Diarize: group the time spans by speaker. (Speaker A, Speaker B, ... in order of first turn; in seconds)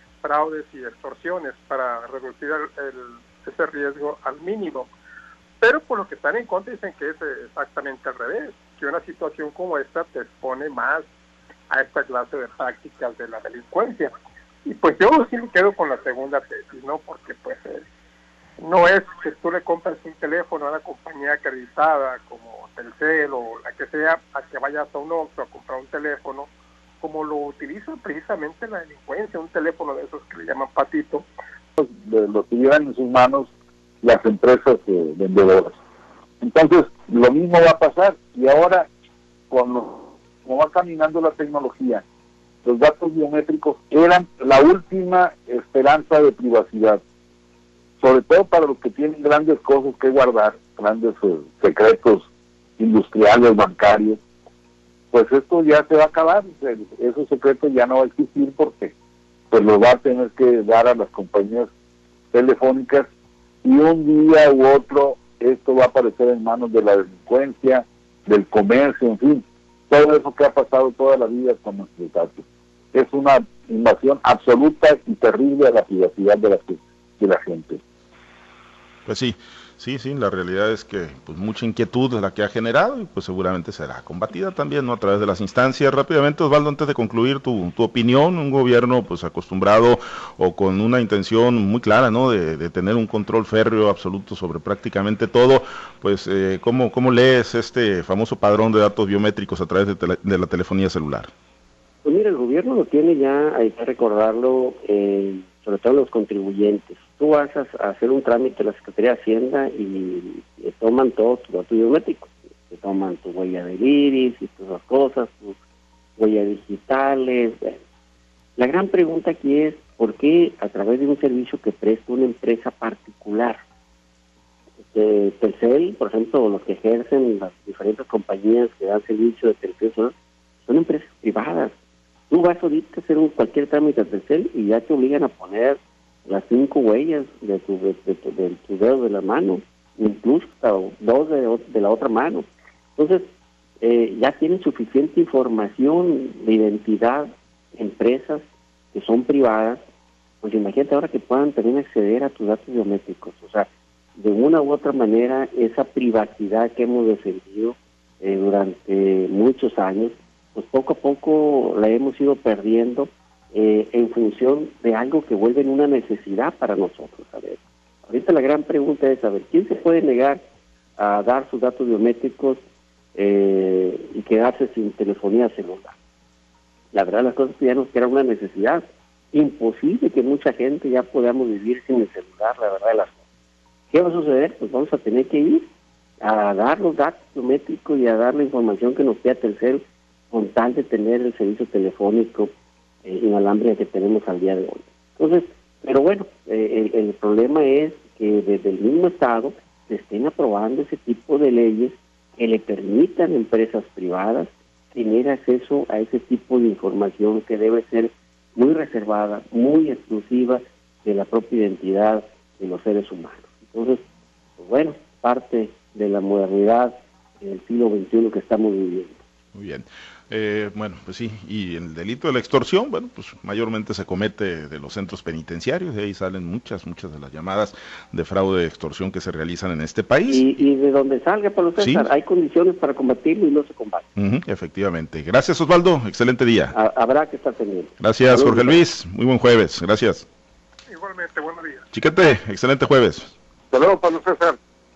Speaker A: 0.2-4.9, 5.6-11.1, 11.7-14.1, 14.6-17.8, 18.6-26.5, 27.0-31.2, 240.9-241.8
Speaker B: 31.8-35.8, 36.4-38.9, 39.5-42.0, 42.6-47.0, 48.0-52.3, 52.8-54.2, 55.1-58.9, 59.5-61.7, 62.3-63.1, 63.6-77.8, 243.7-244.6
Speaker C: 79.0-101.3, 219.5-230.7, 231.8-232.1, 234.2-236.7, 238.0-240.2, 241.9-243.3
Speaker D: 102.0-115.5, 116.2-117.8, 118.6-123.6, 124.9-130.1, 130.7-131.7, 132.3-143.3, 143.8-149.8, 150.4-170.4, 171.0-172.6, 173.1-175.9, 176.9-183.2, 183.9-185.7, 186.2-192.5, 193.0-214.0, 214.6-219.2, 230.3-234.1, 236.7-238.8